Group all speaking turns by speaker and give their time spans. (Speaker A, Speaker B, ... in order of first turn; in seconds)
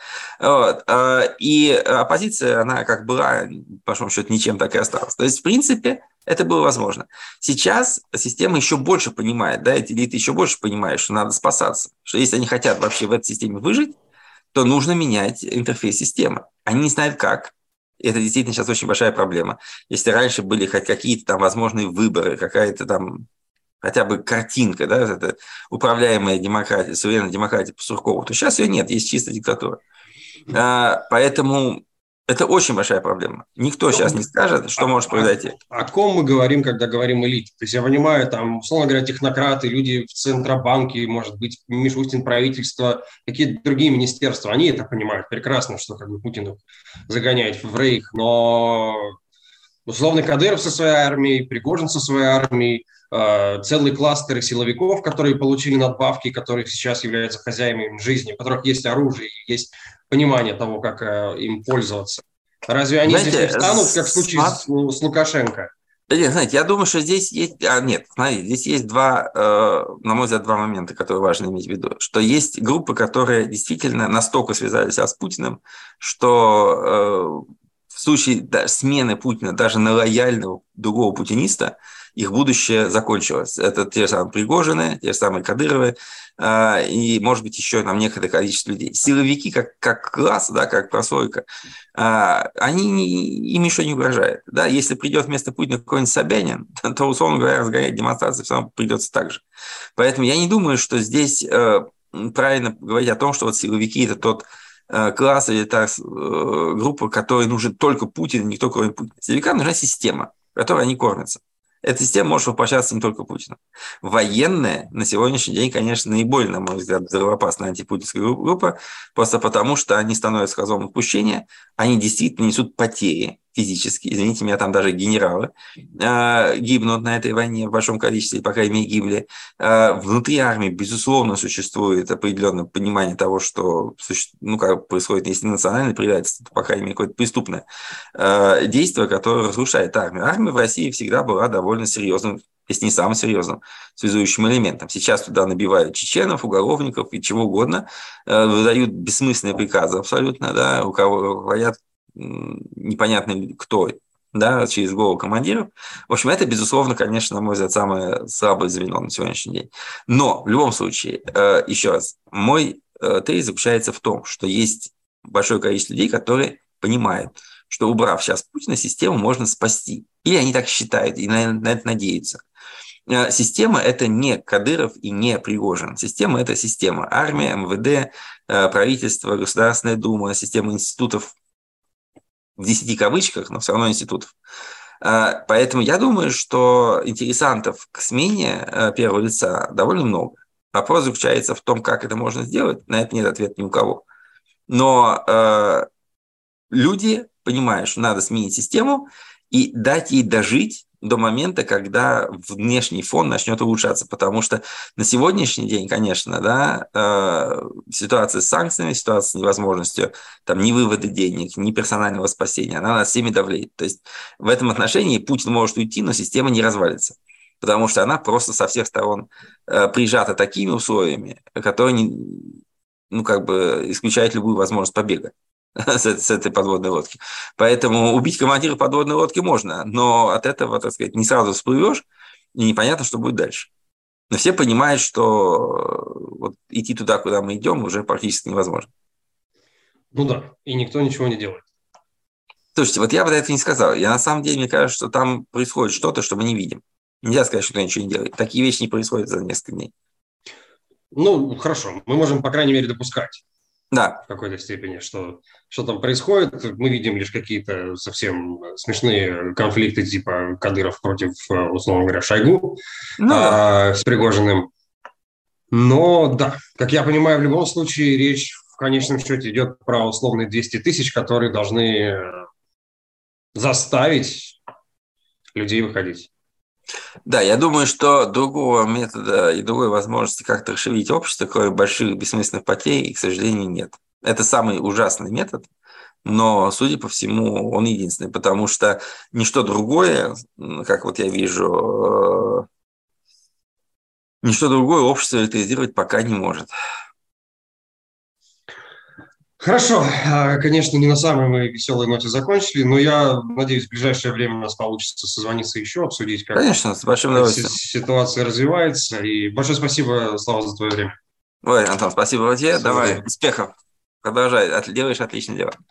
Speaker A: 0.4-13.9, 14.5-23.3, 23.8-29.8, 30.5-35.6, 63.0-64.6, 66.1-91.4, 92.0-99.4, 100.0-137.6, 138.2-172.4, 173.1-181.3, 182.6-184.3, 185.0-194.0, 194.7-195.8, 196.7-233.7, 234.3-238.9, 242.7-249.9, 253.9-254.2, 263.2-263.6, 277.2-285.6, 286.2-292.7, 294.4-296.7, 306.5-307.7, 311.6-315.8
Speaker B: 33.9-34.2, 34.8-49.1, 49.9-65.7, 240.1-241.7, 251.1-253.4, 254.3-264.7, 265.7-272.4, 273.5-274.6, 275.6-276.3, 299.6-306.7, 307.3-311.1, 312.7-313.2